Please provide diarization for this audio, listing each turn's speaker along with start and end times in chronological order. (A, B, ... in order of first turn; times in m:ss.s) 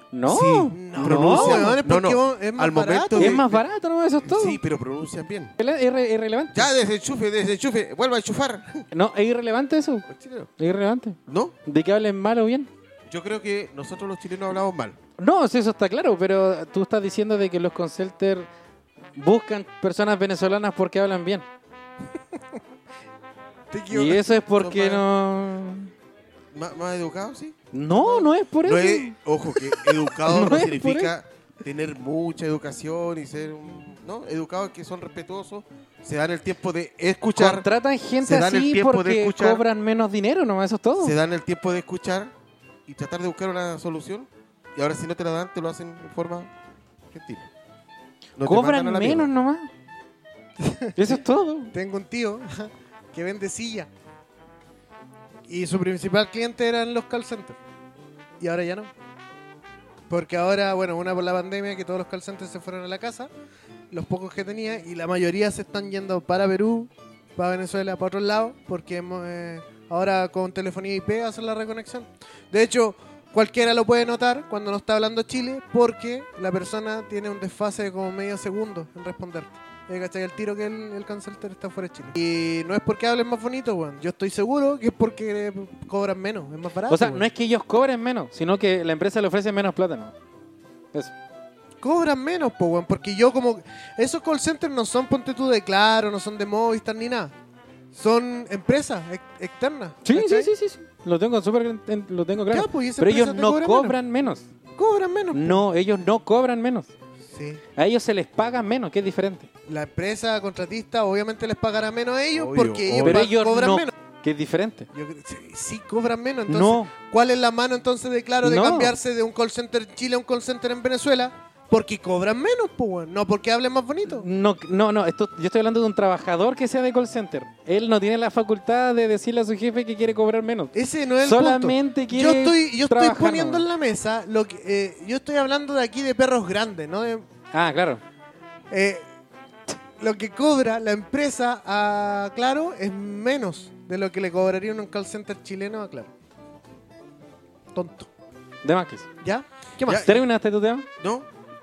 0:00.1-0:01.8 A
0:00.3-0:03.6 B
0:00.7-0:03.5 C
0:03.2-0:04.6 A
0:04.2-0:05.6 B
0:05.6-0:06.7 A
0:06.5-0:08.8 B
0:08.9-0:10.1 A
0:10.1-0:10.5 B
0:10.6-0:12.7 A
0:11.3-0:11.6 B
0:13.1-0:15.0 B
0:15.2-0:18.5 A
0:19.2-0:21.4 A
0:23.7-0:24.2 C
0:23.9-0:25.9 A
0:24.5-0:25.0 B
0:26.5-0:37.7 B
0:27.7-0:29.2 A
0:30.3-0:31.1 A
0:37.4-0:41.2 A
0:38.2-0:39.6 B
0:41.0-0:42.3 B
0:42.9-0:46.5 B
0:47.1-0:47.5 B
0:48.4-0:49.3 B
0:48.4-0:49.7 A
0:50.6-0:51.1 C
0:51.0-0:51.7 A
0:51.7-0:53.9 C
0:55.5-0:57.6 C
0:58.4-0:58.9 C
1:00.1-1:03.3 C
1:03.9-1:27.3 C
1:26.9-1:30.1 A
1:31.8-1:37.3 C
1:37.9-1:40.5 C
1:40.0-1:44.5 A
1:42.5-1:44.0 C
1:44.8-1:45.6 C
1:45.3-1:46.9 A
1:47.2-1:47.6 C
1:47.8-1:49.5 A
1:49.7-1:53.9 C
1:52.4-1:53.3 B
1:53.0-1:54.9 A
1:54.9-2:04.3 C
1:56.5-1:56.9 A
1:58.4-1:59.0 A
2:04.1-2:13.7 A
2:10.7-2:17.3 C
2:17.5-2:18.0 A
2:18.7-2:19.0 C
2:20.0-2:26.1 C
2:27.7-2:28.1 C
2:28.6-2:29.1 A
2:29.2-2:30.1 C
2:29.9-2:30.2 B
2:30.0-2:30.9 A
2:31.0-2:31.3 B